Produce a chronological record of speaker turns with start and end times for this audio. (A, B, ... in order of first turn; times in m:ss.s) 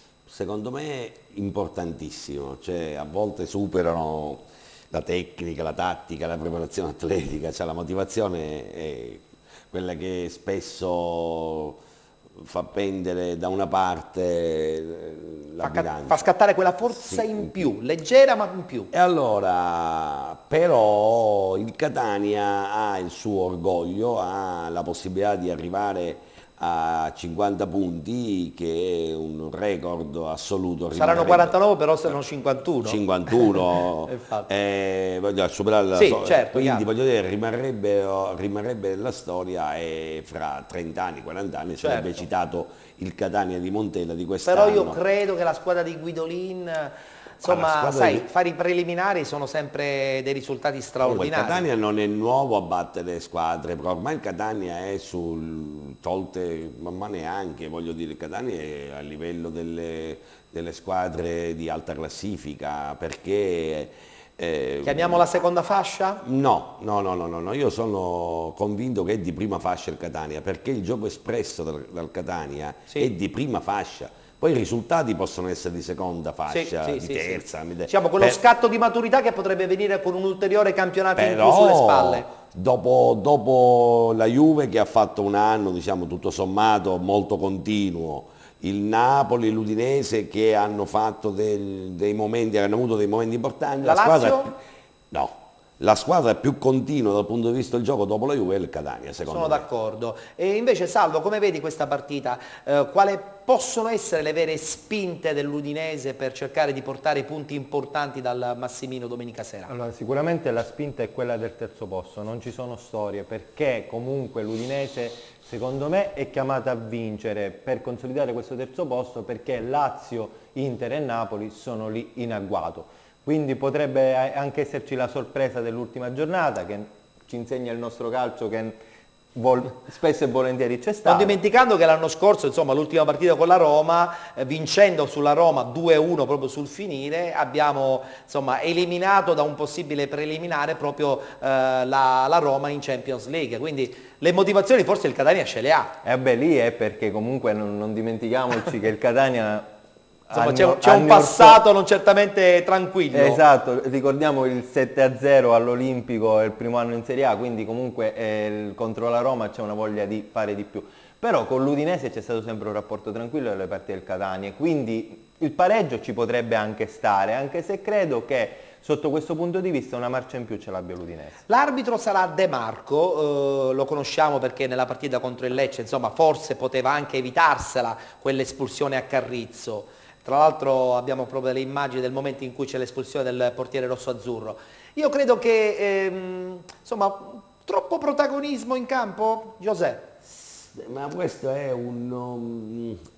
0:00.3-0:11.8 A
0:12.4-0:16.3 A
0:15.6-0:18.9 B
0:16.9-0:17.7 A
0:18.9-0:31.5 A
0:30.9-0:34.5 B
0:32.8-0:45.0 A
0:35.9-0:36.9 B
0:41.8-0:42.2 B
0:44.4-0:51.6 B
0:47.4-0:48.3 A
0:51.0-1:05.2 A
1:04.8-1:06.2 B
1:06.2-1:18.4 A
1:16.5-1:22.3 B
1:21.2-1:34.6 A
1:33.8-1:34.5 B
1:35.1-1:39.6 A
1:39.3-1:49.7 B
1:49.7-2:08.8 C
2:09.3-2:11.4 C
2:11.0-2:25.9 B
2:26.0-2:29.7 C
2:30.3-2:31.6 C
2:30.3-2:33.4 B
2:33.1-2:51.3 C
2:51.5-3:10.1 B
3:10.2-3:13.0 A